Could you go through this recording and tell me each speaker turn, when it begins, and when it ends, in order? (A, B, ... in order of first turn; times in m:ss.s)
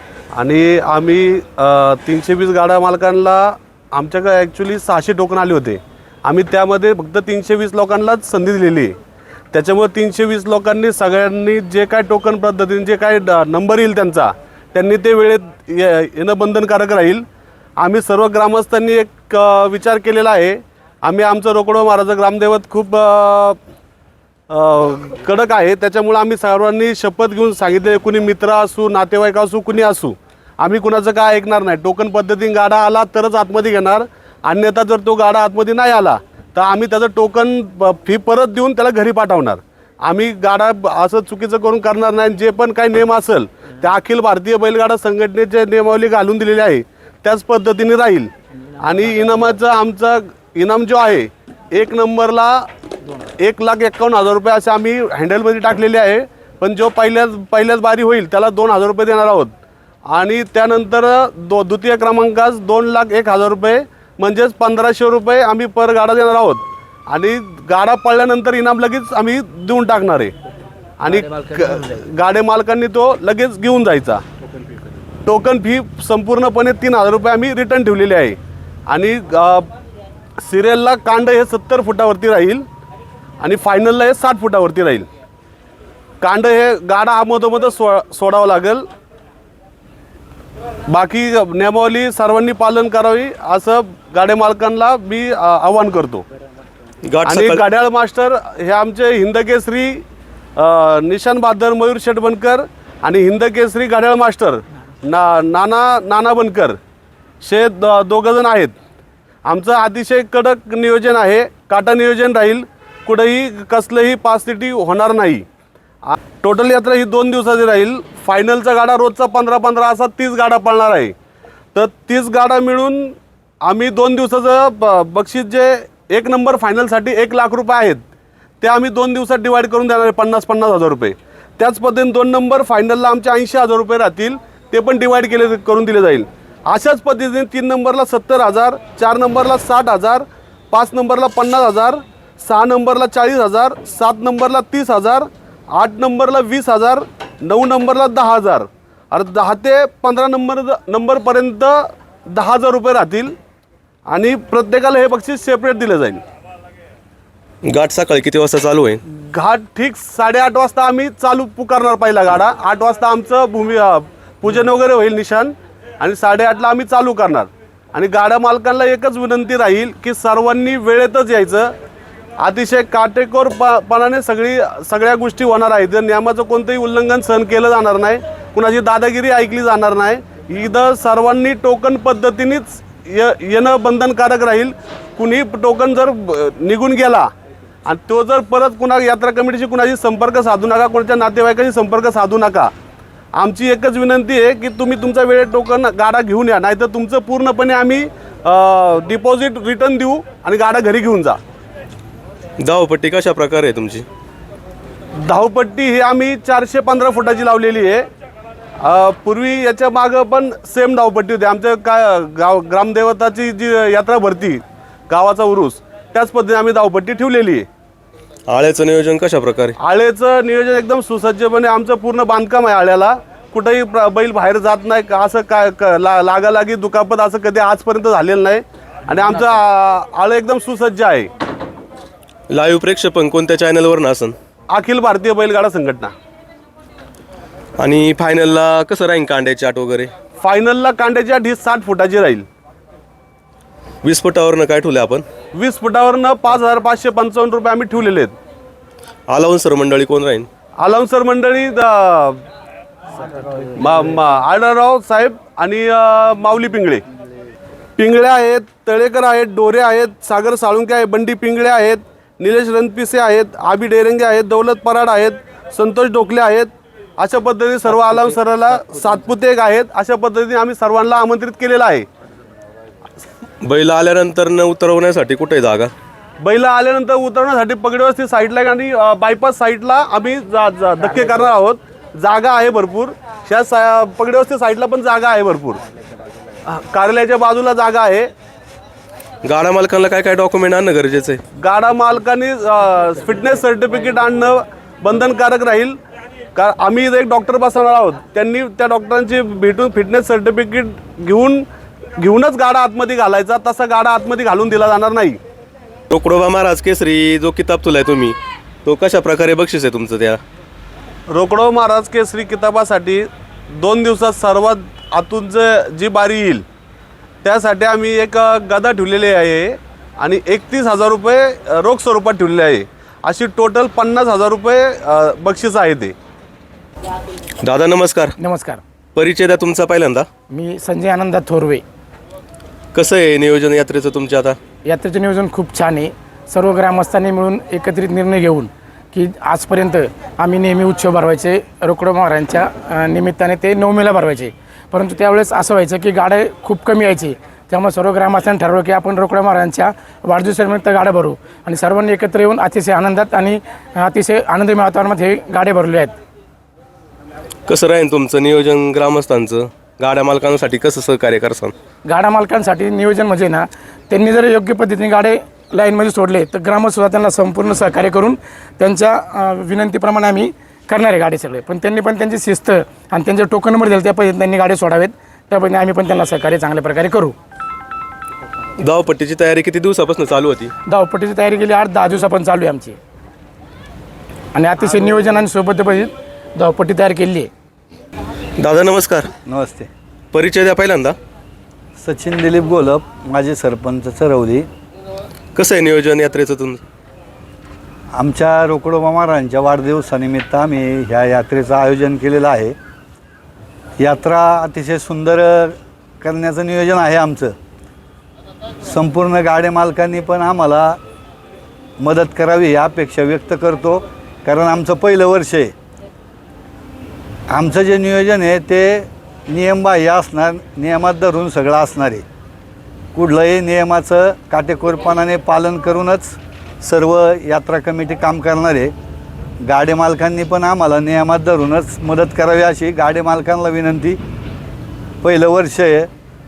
0:00.3-0:09.0 A
0:09.5-0:17.2 A
0:17.8-0:23.6 A
0:24.5-0:52.7 A
0:53.4-0:59.5 A
1:00.1-1:10.3 A
1:11.0-1:14.2 A
1:15.3-1:19.7 A
1:20.4-1:22.6 A
1:23.4-1:25.1 A
1:26.2-1:28.8 A
1:30.9-1:36.2 A
1:37.0-1:37.6 B
1:37.3-1:40.0 A
1:40.6-1:46.8 A
1:47.4-1:48.8 A
1:49.4-1:55.4 A
1:56.0-2:01.1 A
2:01.7-2:08.0 A
2:08.6-2:31.8 A
2:32.3-2:33.3 A
2:34.1-2:36.2 A
2:37.7-2:39.0 B
2:39.3-2:51.7 A
2:52.4-3:07.3 A
3:07.9-3:12.7 A
3:13.3-3:21.4 A
3:22.6-3:24.1 B
3:25.2-3:28.1 A
3:28.8-3:37.7 A
3:38.5-3:39.8 B
3:39.8-3:51.3 A
3:52.5-3:54.4 B
3:54.7-3:56.1 A
3:57.8-4:00.1 B
4:00.4-4:02.4 A
4:04.0-4:05.2 B
4:05.6-4:08.3 A
4:09.3-4:10.5 B
4:10.8-4:12.4 A
4:13.8-4:17.0 A
4:18.0-4:32.1 A
4:33.6-4:35.9 B
4:36.4-4:45.8 A
4:46.7-4:48.3 A
4:49.4-4:51.4 B
4:51.6-4:56.0 A
4:56.6-5:01.7 A
5:02.2-5:05.4 A
5:06.1-5:10.4 B
5:11.3-5:13.2 A
5:13.8-5:16.6 A
5:17.4-5:26.1 A
5:27.6-5:28.4 B
5:28.4-5:28.8 C
5:29.2-5:30.3 B
5:30.5-5:31.8 C
5:32.9-5:34.6 B
5:34.9-5:56.2 C
5:57.7-6:01.8 B
6:02.1-6:17.4 C
6:18.8-6:20.7 B
6:20.9-6:23.0 C
6:24.6-6:27.5 C
6:28.6-6:29.3 B
6:29.5-6:29.9 D
6:30.3-6:31.2 B
6:32.0-6:34.7 D
6:35.6-6:36.8 B
6:38.2-6:42.7 D
6:44.0-6:47.5 D
6:48.8-6:51.0 D
6:52.0-6:55.7 D
6:57.5-7:02.2 D
7:03.1-7:08.9 D
7:09.6-7:14.2 D
7:15.2-7:16.1 D